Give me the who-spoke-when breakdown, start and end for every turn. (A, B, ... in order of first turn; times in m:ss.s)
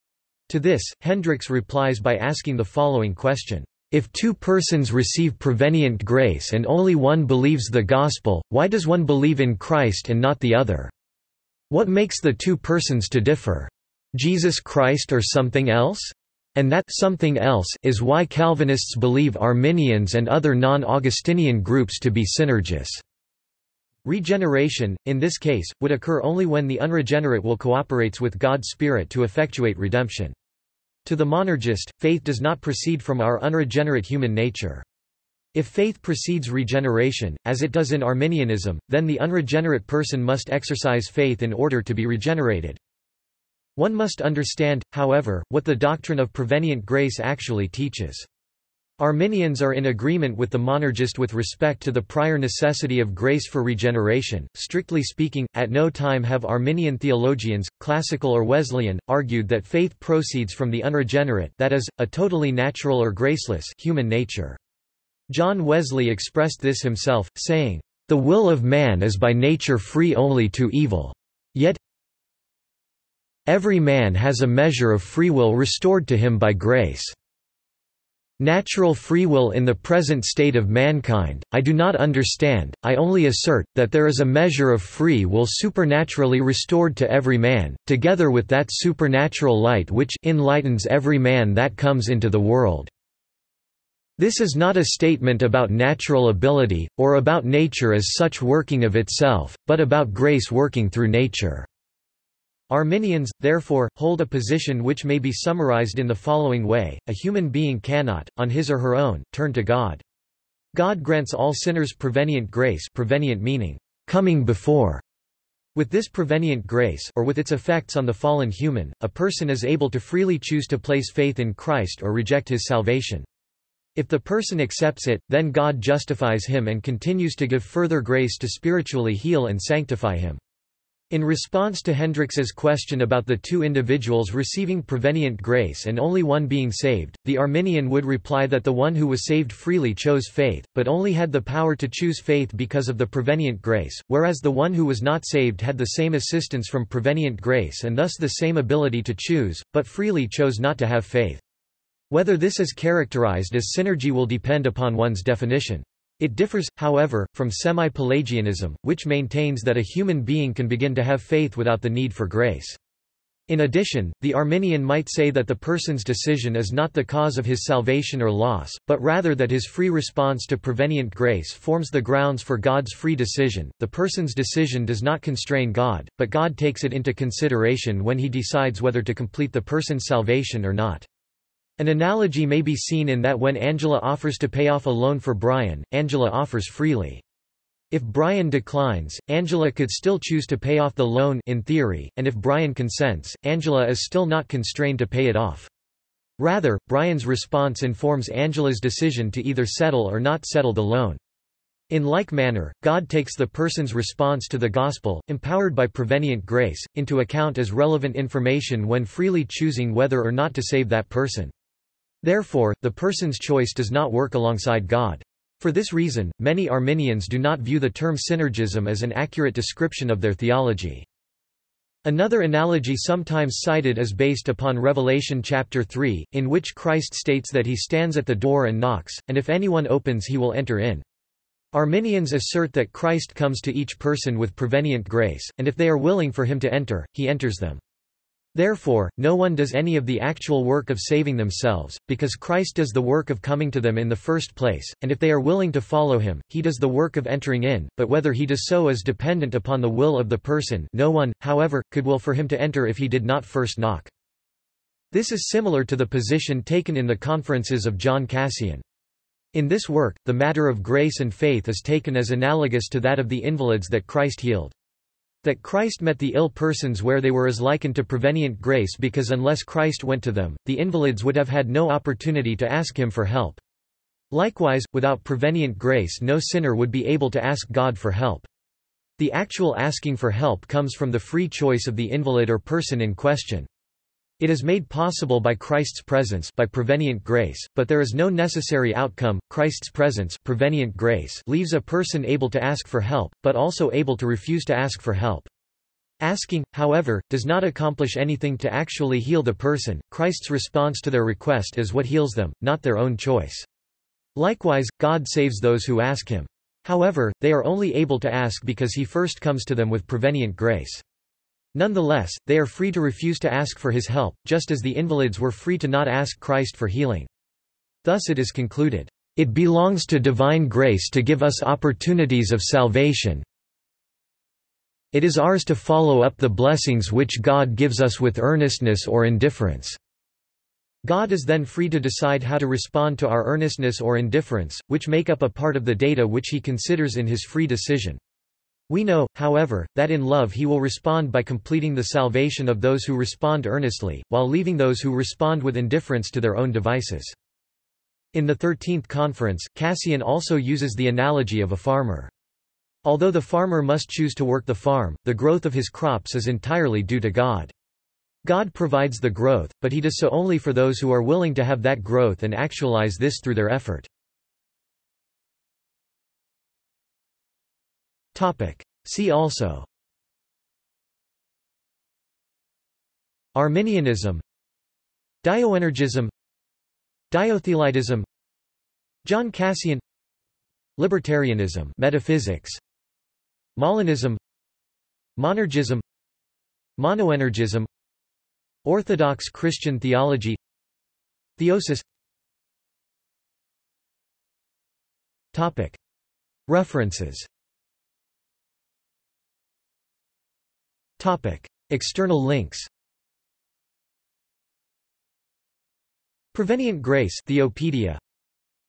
0:00.5-0:10.9 A
0:11.7-0:23.0 A
0:24.0-0:30.4 A
0:31.0-0:34.8 A
0:35.5-0:42.8 A
0:43.8-0:48.3 A
0:49.0-1:04.6 A
1:05.3-1:11.8 A
1:13.5-1:17.2 A
1:18.4-1:32.9 A
1:34.2-1:41.7 A
1:42.7-1:50.0 A
1:50.7-1:55.0 A
1:55.8-2:03.3 A
2:04.0-2:10.4 A
2:11.1-2:31.4 A
2:32.1-2:42.8 A
2:43.5-3:01.1 A
3:01.8-3:07.2 A
3:07.9-3:15.7 A
3:16.4-3:21.2 A
3:21.9-3:31.5 A
3:32.2-3:41.1 A
3:42.0-3:51.0 A
3:51.7-3:57.8 A
3:58.6-4:14.1 A
4:15.1-4:18.8 A
4:19.5-4:24.8 A
4:25.4-4:33.6 A
4:34.3-4:38.5 A
4:39.2-4:43.7 A
4:44.4-4:55.5 A
4:56.2-5:03.7 A
5:04.4-5:11.0 A
5:11.7-5:17.3 A
5:18.0-5:23.4 A
5:25.1-5:30.0 A
5:31.0-5:38.2 A
5:38.9-5:47.4 A
5:48.3-5:52.3 A
5:53.0-5:57.7 A
5:58.4-6:04.1 A
6:08.3-6:09.9 A
6:13.6-6:14.4 A
6:15.4-6:16.3 A
6:17.3-6:18.3 A
6:19.2-6:20.0 A
6:21.0-6:22.8 A
6:23.8-6:24.4 A
6:25.4-6:26.0 A
6:27.0-6:27.9 A
6:28.8-6:30.6 A
6:31.6-6:32.0 A
6:35.5-6:36.0 A
6:36.7-6:37.5 A
6:41.2-6:42.9 A
6:46.5-6:48.2 A